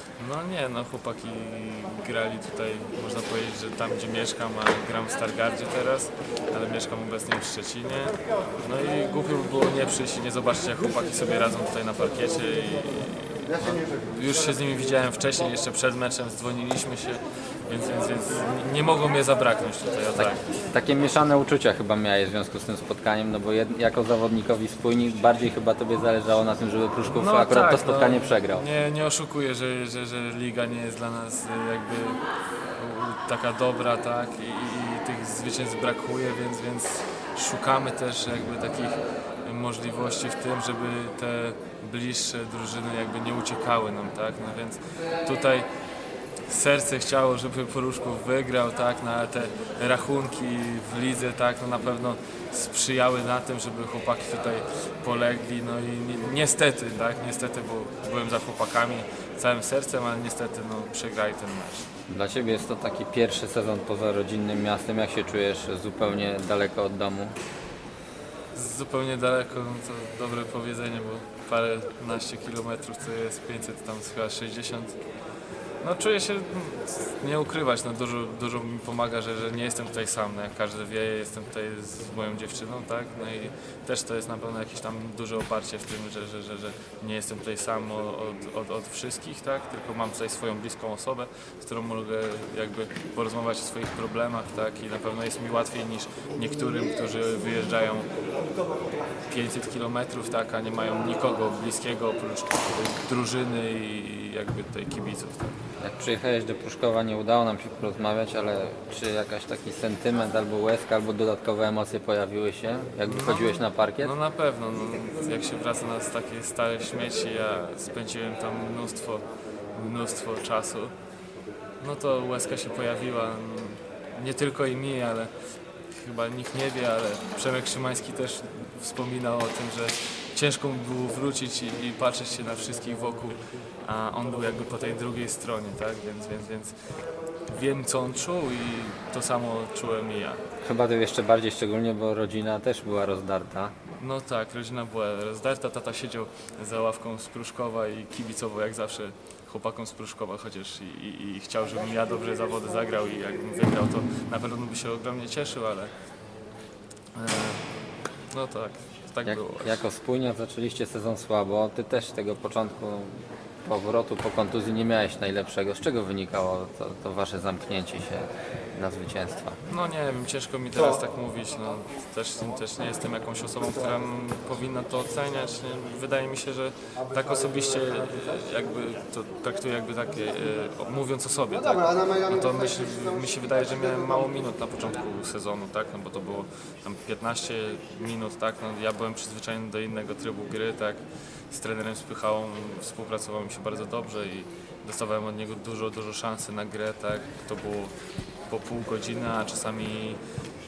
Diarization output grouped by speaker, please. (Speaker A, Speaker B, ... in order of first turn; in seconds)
Speaker A: 0.2-20.5, 27.1-32.2, 32.8-45.7, 46.5-61.9, 68.5-75.0, 75.8-98.1, 99.3-105.6, 113.0-120.9, 121.8-125.3, 125.9-136.7, 137.5-140.4, 144.0-155.9, 157.2-157.6, 158.3-159.8, 169.7-197.9, 198.5-200.2
Speaker B: 20.2-28.7, 62.1-67.3, 105.8-114.1, 140.6-143.7, 159.2-169.6